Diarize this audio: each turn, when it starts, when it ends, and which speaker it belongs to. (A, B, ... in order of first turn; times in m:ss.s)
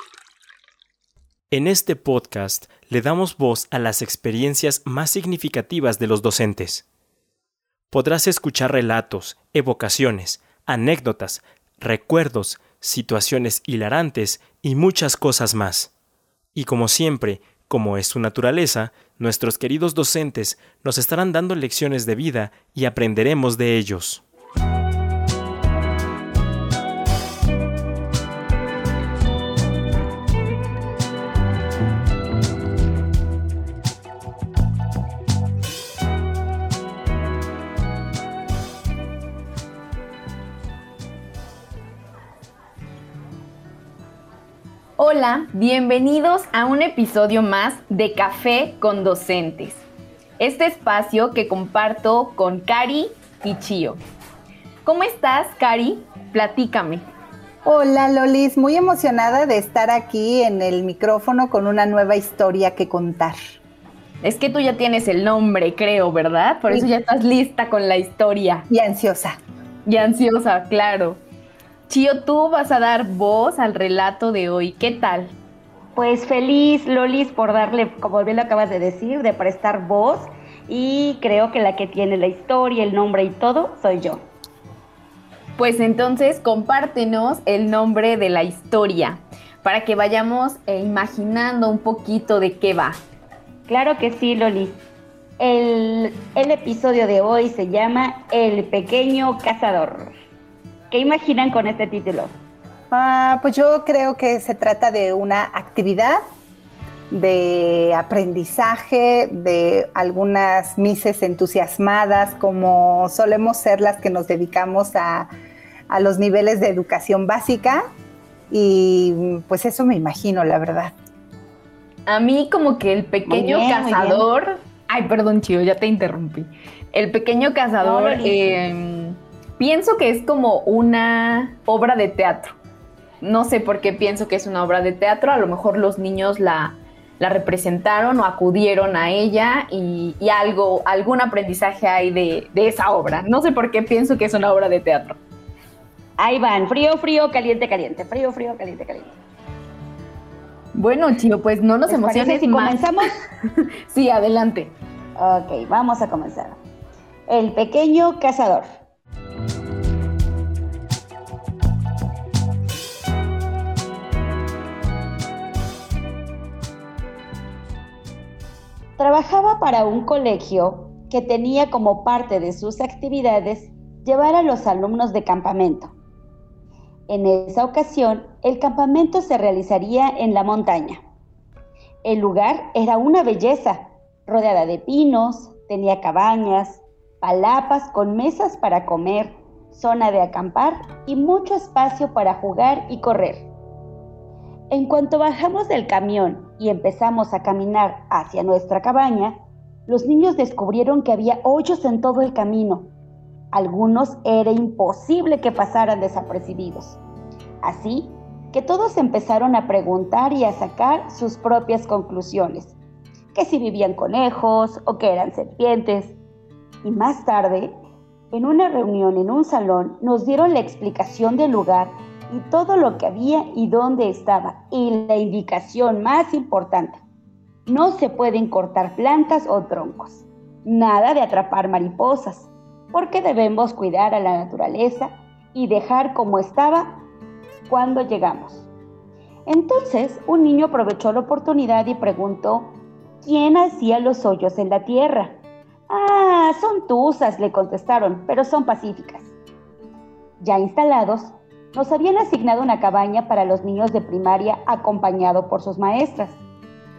0:01.5-0:06.8 A
0:07.9-0:15.9 A
0:16.5-0:24.2 A
0:45.0-0:49.8 B
0:50.4-0:54.0 B
0:54.8-0:57.1 B
0:57.6-1:03.4 C
1:04.2-1:08.7 B
1:08.7-1:09.4 C
1:09.8-1:11.2 B
1:11.9-1:15.4 B
1:16.0-1:24.3 D
1:25.6-1:33.0 B
1:33.7-1:34.8 D
1:35.4-1:40.1 D
1:40.9-1:42.3 D
1:42.9-1:46.2 C
1:47.1-1:55.3 C
1:55.9-1:57.9 C
1:58.5-2:00.9 C
2:02.1-2:12.6 B
2:03.2-2:04.2 D
2:07.8-2:08.6 D
2:13.2-2:25.2 B
2:26.2-2:29.2 D
2:30.7-2:32.9 B
2:31.9-2:33.1 D
2:33.9-2:34.7 B
2:35.2-2:36.6 D
2:37.3-2:38.7 D
2:49.0-2:55.9 D
2:57.1-3:01.0 D
3:02.0-3:13.5 D
3:14.7-3:22.9 D
3:23.5-3:27.0 D
3:27.6-3:32.8 D
3:33.3-3:36.2 D
3:36.8-3:37.7 D
3:38.3-3:47.0 D
3:47.7-3:57.0 D
3:57.7-3:58.7 D
3:59.4-4:09.3 D
4:10.4-4:16.4 D